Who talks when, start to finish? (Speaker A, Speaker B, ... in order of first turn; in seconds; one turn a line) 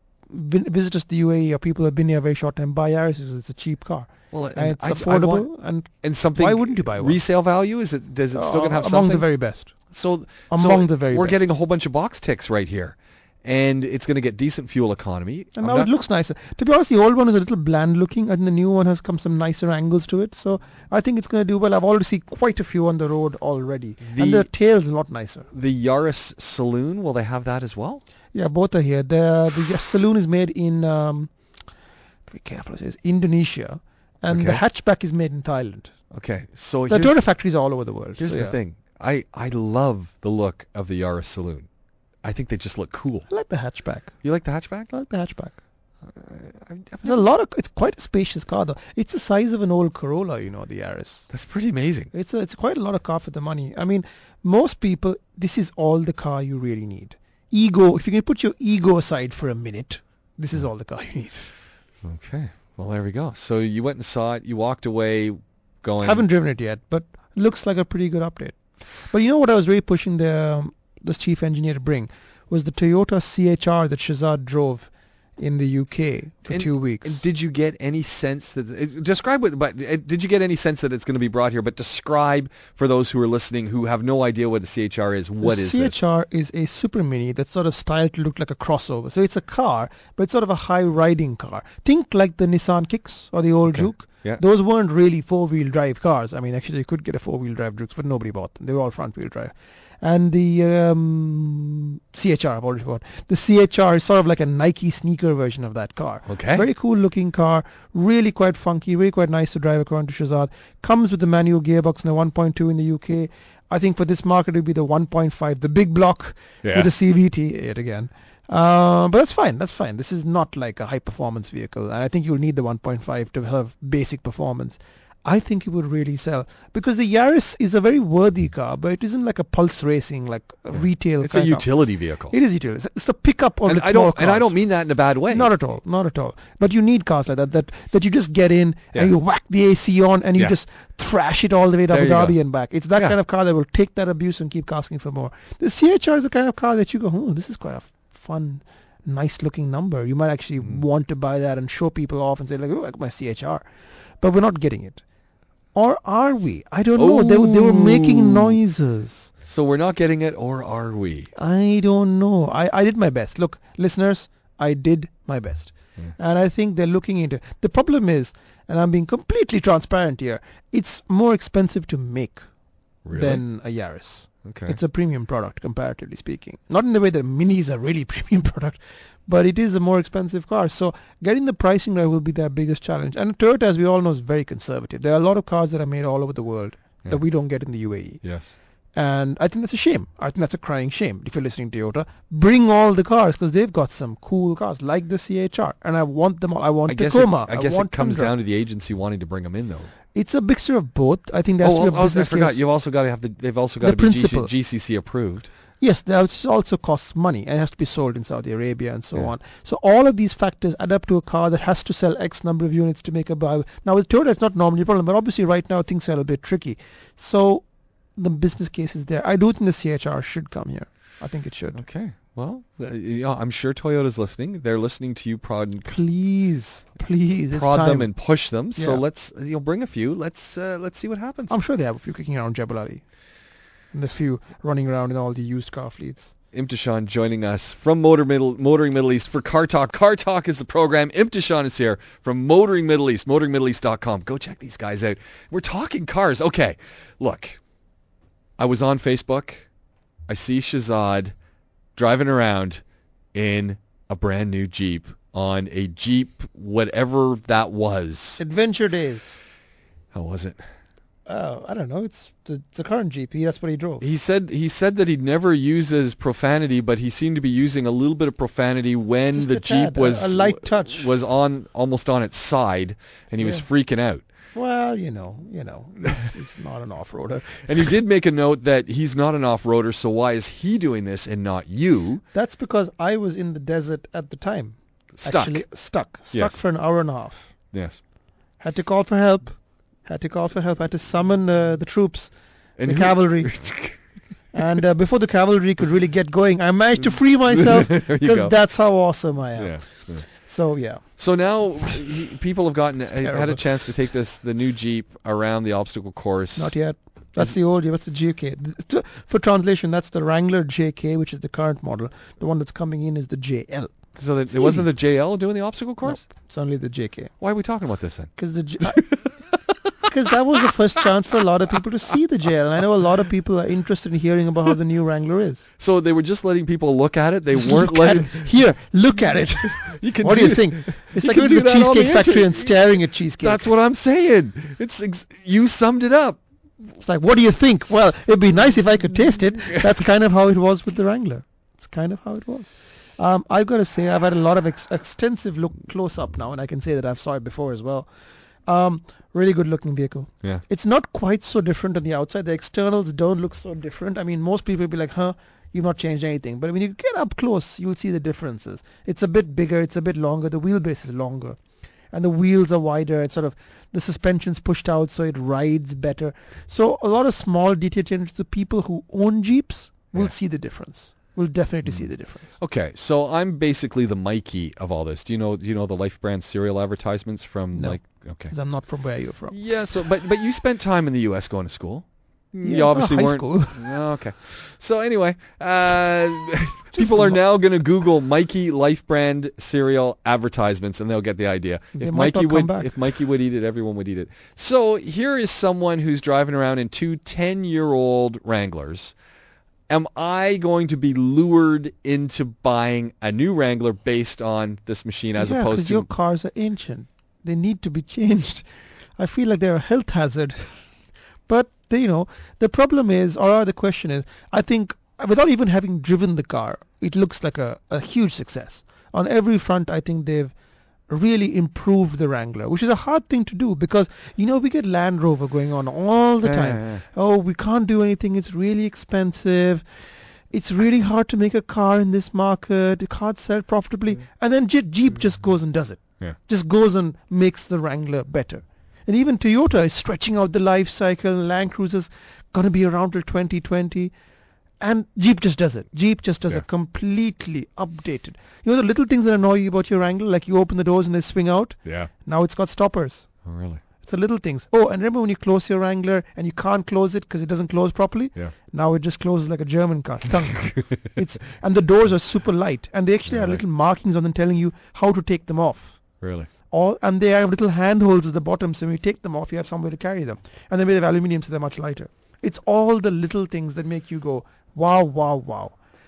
Speaker A: 0.3-7.2
Speaker B: 4.3-5.5
Speaker B: 6.0-9.2
Speaker A: 8.3-9.7
Speaker B: 9.9-15.9
Speaker A: 10.5-11.4
Speaker A: 15.6-25.5
Speaker B: 24.0-24.5
Speaker B: 25.5-28.0
Speaker A: 28.3-31.3
Speaker A: 32.3-35.9
Speaker B: 34.3-34.6
Speaker B: 36.1-37.2
Speaker A: 36.9-38.5
Speaker B: 38.2-41.7
Speaker B: 42.2-43.3
Speaker A: 43.3-44.1
Speaker B: 44.2-44.9
Speaker A: 44.9-45.6
Speaker B: 46.0-47.2
Speaker A: 47.0-51.3
Speaker B: 51.3-52.1
Speaker A: 52.1-61.5
Speaker B: 62.0-66.3
Speaker A: 66.0-68.6
Speaker A: 69.1-77.2
Speaker B: 76.5-86.0
Speaker A: 85.4-131.7
Speaker B: 93.7-94.4
Speaker B: 106.3-106.7
Speaker B: 116.6-116.9
Speaker B: 130.7-132.3
Speaker A: 132.3-134.5
Speaker B: 133.6-135.5
Speaker A: 135.3-153.6
Speaker B: 141.9-142.4
Speaker A: 154.2-155.0
Speaker A: 155.7-159.3
Speaker B: 156.9-158.6
Speaker B: 159.4-161.3
Speaker A: 161.3-172.4
Speaker B: 173.0-173.4
Speaker A: 173.1-188.2
Speaker B: 174.4-174.8
Speaker B: 188.2-188.5
Speaker A: 188.9-198.3
Speaker B: 196.9-199.9
Speaker A: 200.1-202.6
Speaker B: 201.6-205.5
Speaker A: 203.8-204.5
Speaker A: 205.8-221.8
Speaker B: 221.7-225.9
Speaker A: 225.8-228.1
Speaker B: 227.5-231.5
Speaker A: 228.7-229.0
Speaker A: 231.5-233.0
Speaker A: 233.9-236.3
Speaker B: 236.5-247.6
Speaker B: 248.6-249.7
Speaker B: 250.3-251.3
Speaker B: 251.9-252.8
Speaker B: 253.3-258.4
Speaker A: 258.4-259.4
Speaker B: 260.1-260.6
Speaker A: 261.3-264.0
Speaker B: 264.0-274.2
Speaker A: 269.3-271.1
Speaker A: 274.5-277.9
Speaker B: 277.6-282.2
Speaker A: 282.3-287.5
Speaker B: 285.1-285.7
Speaker B: 286.3-286.6
Speaker B: 287.7-288.0
Speaker A: 288.6-293.5
Speaker B: 292.8-294.0
Speaker A: 294.5-301.0
Speaker B: 297.5-298.5
Speaker B: 299.6-300.2
Speaker B: 301.2-306.7
Speaker A: 303.1-303.6
Speaker A: 306.6-313.9
Speaker B: 314.1-316.2
Speaker A: 314.5-314.8
Speaker A: 316.0-317.3
Speaker B: 317.4-320.1
Speaker A: 318.4-319.1
Speaker A: 320.0-325.6
Speaker B: 325.8-328.5
Speaker A: 327.5-333.7
Speaker B: 329.7-332.8
Speaker B: 333.4-336.4
Speaker A: 337.0-348.1
Speaker A: 348.6-361.6
Speaker A: 362.1-372.6
Speaker B: 371.9-378.5
Speaker A: 377.7-379.6
Speaker B: 379.5-399.1
Speaker A: 382.6-384.0
Speaker A: 386.9-387.4
Speaker A: 391.9-393.0
Speaker B: 399.9-406.1
Speaker A: 405.4-410.8
Speaker A: 411.5-420.5
Speaker A: 421.1-429.8
Speaker B: 426.4-427.0
Speaker A: 430.5-444.1
Speaker A: 444.8-453.3
Speaker B: 451.8-452.1
Speaker B: 453.4-453.8
Speaker A: 454.0-466.0
Speaker B: 463.2-463.6
Speaker B: 466.2-466.5
Speaker A: 466.7-475.8